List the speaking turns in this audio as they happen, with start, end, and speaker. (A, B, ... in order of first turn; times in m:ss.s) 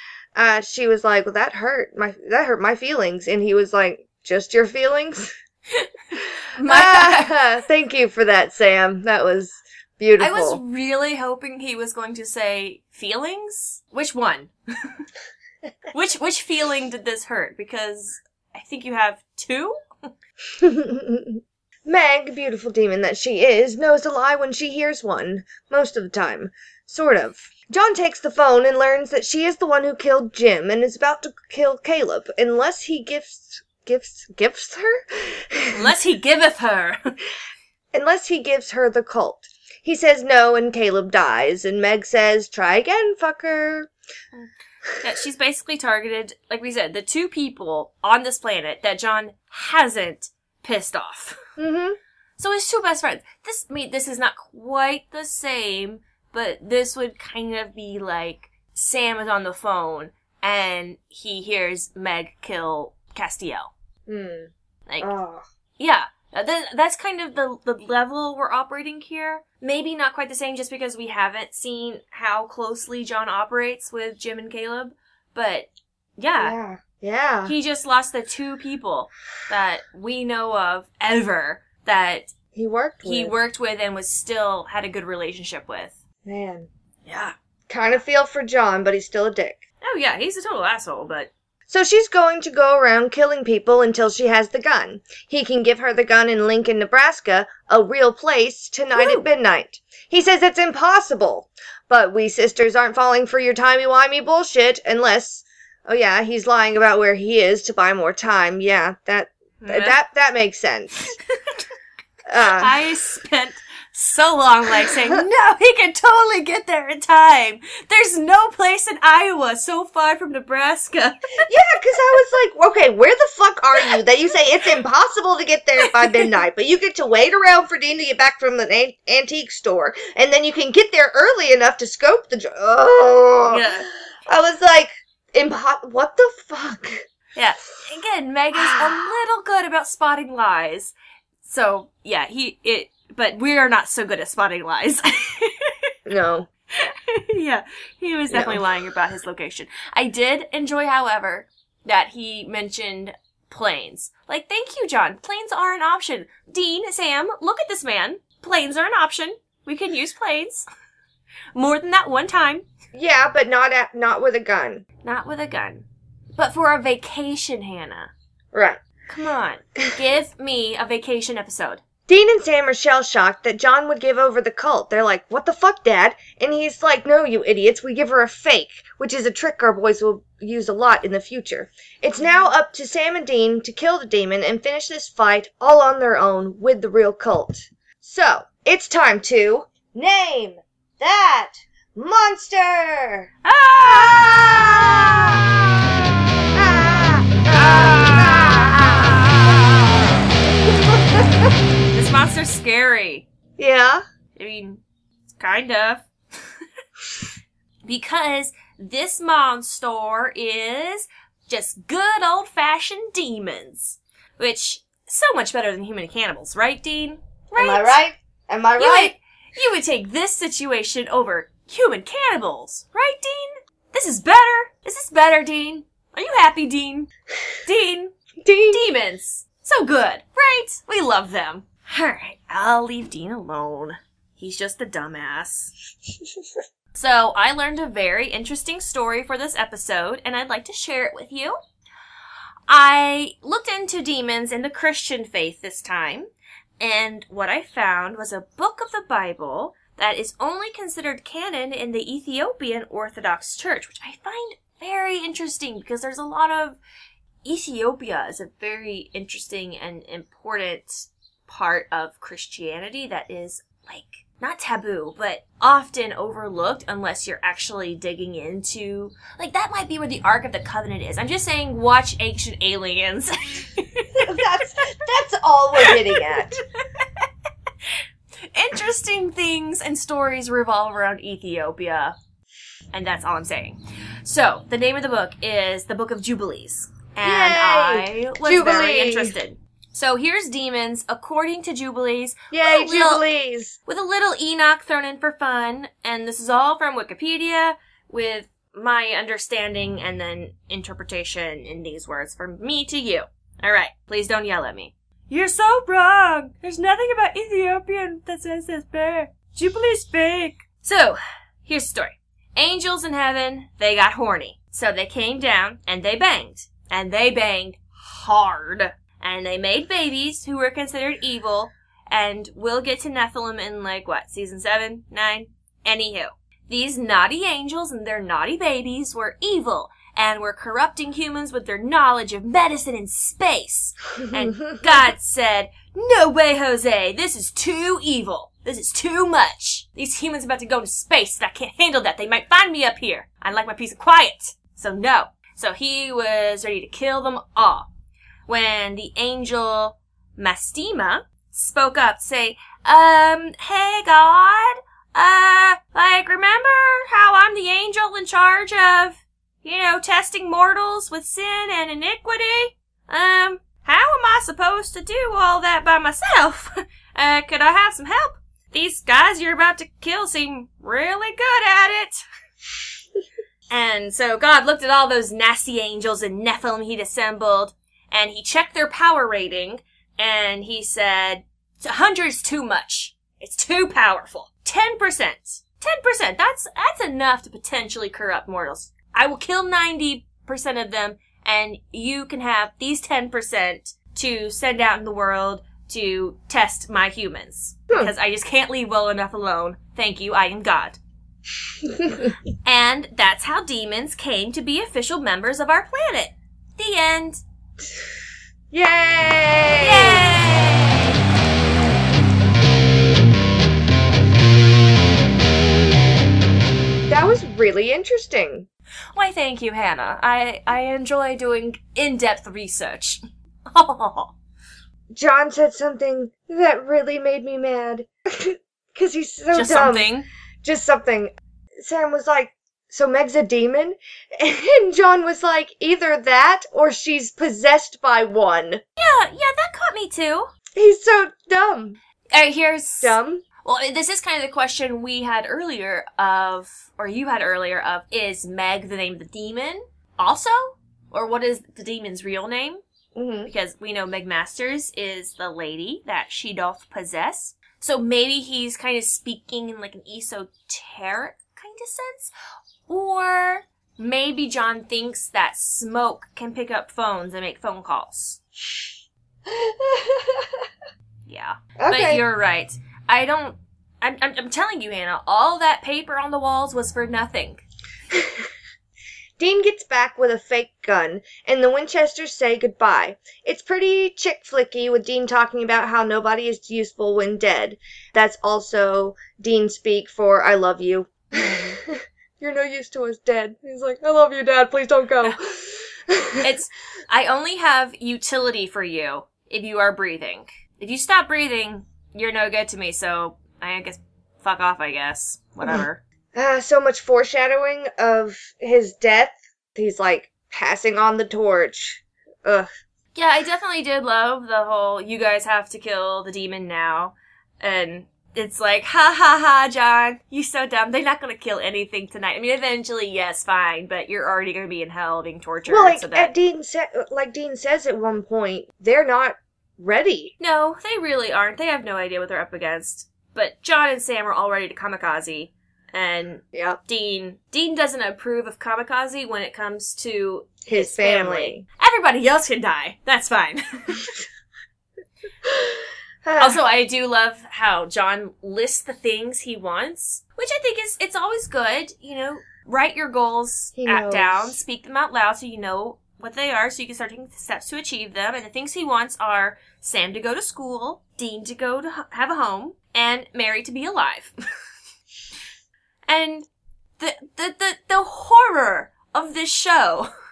0:00.3-0:05.3 A
0:06.5-0:07.4 B
0:06.6-0:10.6 A
0:10.2-0:15.0 B
0:15.9-0:20.1 B
0:20.6-0:35.9 A
0:35.7-0:37.1 B
0:37.9-0:43.9 A
0:45.0-0:51.4 B
0:51.6-0:52.0 A
0:52.4-1:03.7 B
1:04.1-1:05.4 A
1:04.9-1:05.1 B
1:05.8-1:16.5 B
1:16.4-1:17.5 A
1:17.4-1:22.3 B
1:22.5-1:23.3 A
1:23.0-1:26.0 B
1:26.2-1:26.7 A
1:27.0-1:27.3 B
1:27.7-1:29.6 A
1:29.8-1:31.3 B
1:31.7-1:51.2 A
1:39.0-1:39.2 B
1:49.6-1:50.0 B
1:51.3-1:51.6 B
1:52.3-1:52.7 A
1:52.4-2:02.0 B
2:01.4-2:13.7 A
2:05.8-2:06.3 B
2:13.5-2:13.9 B
2:14.3-2:17.0 A
2:17.4-2:25.9 B
2:26.0-2:26.5 A
2:26.8-2:40.7 B
2:28.3-2:28.6 A
2:41.5-2:42.6 B
2:42.9-2:44.8 A
2:45.0-2:48.1 B
2:48.5-2:48.8 A
2:49.1-2:51.8 B
2:52.1-3:13.3 A
3:13.4-3:15.5 B
3:13.8-3:15.5 A
3:16.5-3:20.0 A
3:17.5-3:19.4 B
3:20.8-3:21.5 A
3:21.9-3:23.2 B
3:23.6-3:24.0 A
3:24.4-3:24.8 B
3:25.4-3:26.1 B
3:27.8-3:38.0 B
3:37.6-3:39.1 A
3:38.8-3:47.1 B
3:47.6-3:48.1 B
3:48.4-3:48.8 A
3:48.7-3:55.7 B
3:56.9-4:01.6 B
4:02.7-4:16.8 B
4:17.4-4:34.4 B
4:34.2-4:36.6 A
4:35.8-4:36.4 B
4:36.9-4:37.3 B
4:38.5-4:42.1 B
4:42.9-4:53.2 B
4:47.2-4:49.3 A
4:52.5-4:53.8 A
4:53.9-5:47.9 B
5:34.2-5:35.0 A
5:48.5-6:12.2 B
6:13.7-6:41.0 B
6:41.8-6:42.3 A
6:42.6-6:47.4 B
6:48.7-6:50.3 A
6:49.8-6:51.2 B
6:57.1-6:58.7 A
6:59.1-7:04.3 B
7:05.1-7:10.1 A
7:09.5-7:10.3 B
7:10.6-7:18.8 A
7:19.0-7:20.5 B
7:20.7-7:22.0 A
7:22.3-7:32.8 B
7:23.0-7:23.4 A
7:33.1-7:33.5 A
7:33.5-7:42.3 B
7:42.9-7:48.4 B
7:49.4-7:50.7 A
7:51.3-7:57.6 B
7:51.8-7:52.2 A
7:58.1-7:58.4 A
7:59.4-8:16.5 A
8:11.3-8:11.8 B
8:16.4-8:26.0 B
8:26.3-8:32.7 A
8:33.1-8:46.3 B
8:45.7-8:50.3 A
8:50.4-9:04.0 B
8:56.5-8:56.8 A
9:00.6-9:01.6 A
9:05.4-9:05.7 A
9:06.2-9:06.6 A
9:06.4-9:24.3 B
9:13.8-9:14.6 A
9:26.1-9:26.5 B
9:27.0-9:30.1 B